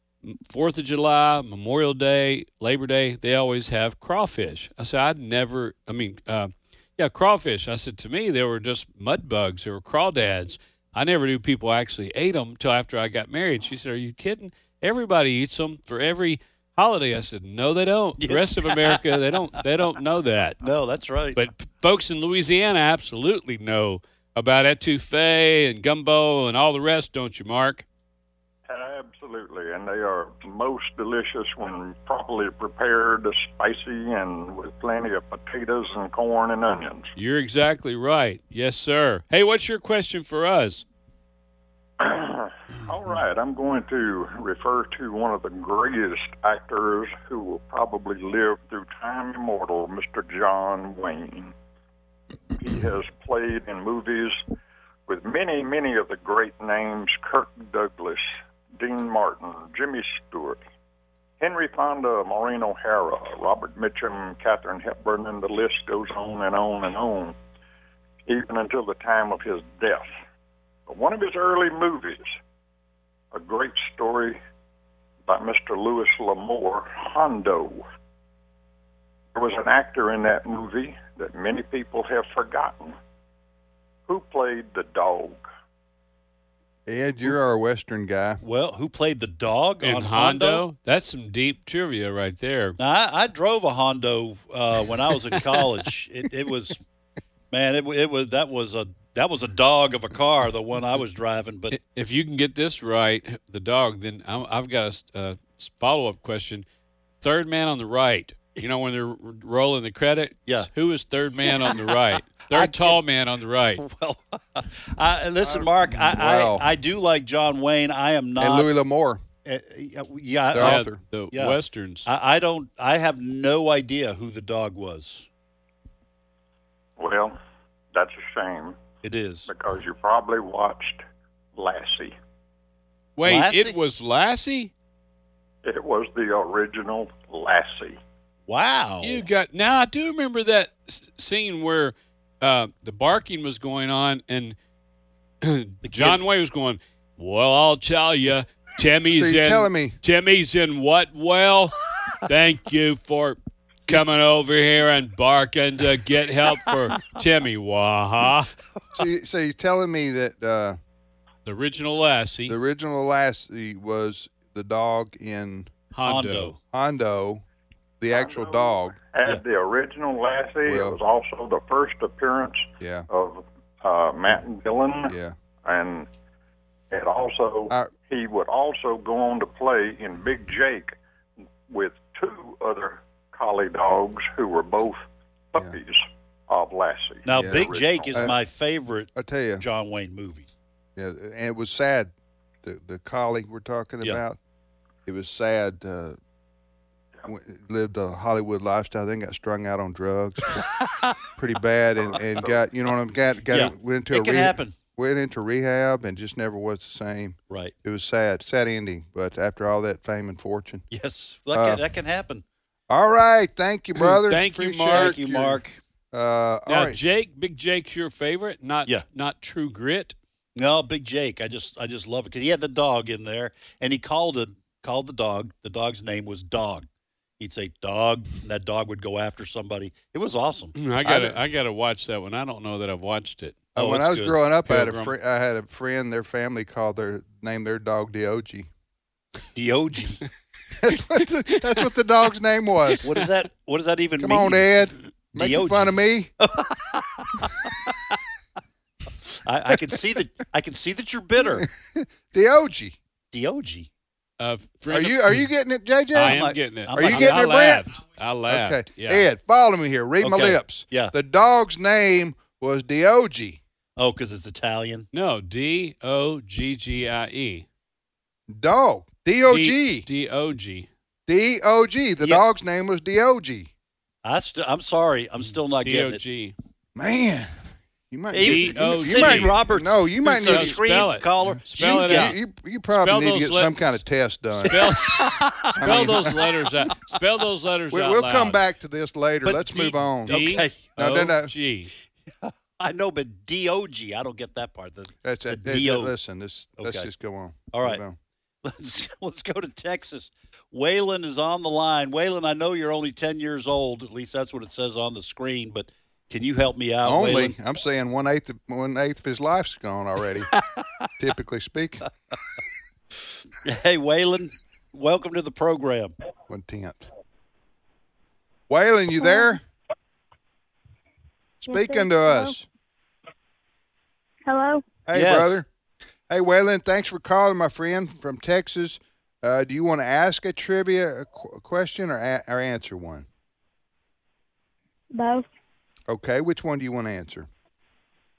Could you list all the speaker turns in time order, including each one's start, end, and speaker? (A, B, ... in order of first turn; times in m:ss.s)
0:00.2-0:20.6 A
0:18.2-0:19.0 B
0:20.6-0:21.4 B
0:21.4-0:27.8 A
0:28.7-0:37.1 C
0:37.2-0:40.8 A
0:42.0-0:51.5 C
0:52.6-0:54.4 C
0:55.1-1:00.6 C
1:01.4-1:07.4 C
1:08.2-1:10.1 C
1:10.9-1:12.3 C
1:13.3-1:14.4 C
1:15.2-1:17.8 C
1:19.3-1:23.0 C
1:24.1-1:25.4 C
1:26.8-1:28.4 D
1:28.4-1:30.6 B
1:29.8-1:32.8 A
1:32.8-1:36.8 B
1:37.5-1:41.8 B
1:41.7-1:46.6 A
1:47.2-1:53.8 A
1:51.4-1:53.0 B
1:53.8-1:58.8 B
1:55.4-1:56.7 D
1:58.4-1:59.2 D
1:59.4-2:05.3 B
2:00.5-2:01.0 D
2:00.6-2:02.1 A
2:07.0-2:07.4 C
2:07.9-2:08.8 C
2:09.0-2:09.5 B
2:09.5-2:11.0 C
2:11.6-2:12.1 C
2:13.2-2:14.7 A
2:13.2-2:13.8 B
2:15.6-2:18.0 C
2:18.5-2:19.2 B
2:19.0-2:24.6 A
2:25.4-2:38.5 A
2:25.8-2:26.2 B
2:29.1-2:30.0 D
2:38.9-2:40.8 D
2:41.4-2:42.6 A
2:42.5-2:45.7 D
2:45.9-2:46.5 A
2:46.0-2:46.6 B
2:46.7-2:47.4 D
2:48.0-2:49.0 D
2:48.1-2:56.1 C
2:50.6-2:51.0 D
2:52.8-2:53.1 D
2:55.1-2:55.3 D
2:56.9-3:01.0 C
3:01.7-3:05.0 C
3:05.5-3:08.3 C
3:07.2-3:10.5 B
3:07.3-3:08.4 D
3:09.1-3:09.6 D
3:11.0-3:12.1 D
3:12.6-3:14.4 D
3:15.0-3:16.2 D
3:17.2-3:20.7 D
3:21.4-3:30.8 D
3:23.5-3:24.7 B
3:30.9-3:32.4 B
3:31.5-3:31.8 D
3:32.9-3:35.6 D
3:34.0-3:35.2 A
3:34.9-3:35.8 B
3:36.1-3:37.0 D
3:36.7-3:40.2 A
3:40.6-3:46.9 B
3:47.4-3:50.8 B
3:50.8-3:53.6 A
3:51.0-3:51.4 D
3:53.7-3:58.7 D
3:53.8-3:54.4 B
3:54.7-3:55.1 A
3:59.5-4:00.2 B
4:00.8-4:03.1 D
4:03.0-4:04.7 B
4:04.2-4:06.3 D
4:05.3-4:08.2 B
4:09.4-4:11.7 B
4:11.4-4:13.0 D
4:13.3-4:13.9 B
4:14.4-4:15.4 A
4:14.9-4:17.9 D
4:16.1-4:17.7 B
4:16.1-4:19.3 A
4:18.5-4:23.6 D
4:20.2-4:21.1 B
4:24.0-4:25.1 B
4:25.1-4:27.6 A
4:28.5-4:30.1 D
4:29.5-4:30.9 A
4:31.3-4:33.7 D
4:34.2-4:36.2 B
4:35.8-4:36.5 A
4:36.9-4:37.5 D
4:38.1-4:44.8 D
4:38.3-4:42.4 B
4:38.4-4:39.6 A
4:40.4-4:42.4 A
4:42.9-4:44.0 A
4:44.6-4:48.6 A
4:44.6-4:46.4 B
4:45.8-4:46.5 D
4:47.9-4:50.4 D
4:49.4-4:50.9 B
4:50.2-4:51.9 A
4:51.0-4:51.5 D
4:52.4-4:56.1 B
4:55.2-4:58.2 D
4:56.8-4:57.1 B
4:57.7-4:58.0 B
4:58.6-5:07.5 B
5:07.0-5:10.5 D
5:11.2-5:12.1 D
5:13.6-5:16.1 B
5:16.5-5:17.1 D
5:18.7-5:19.6 D
5:19.2-5:19.6 E
5:21.6-5:22.6 D
5:21.7-5:22.5 E
5:24.4-5:24.8 E
5:25.1-5:25.6 D
5:25.1-5:25.6 B
5:26.3-5:33.3 D
5:35.1-5:35.4 E
5:36.1-5:37.5 D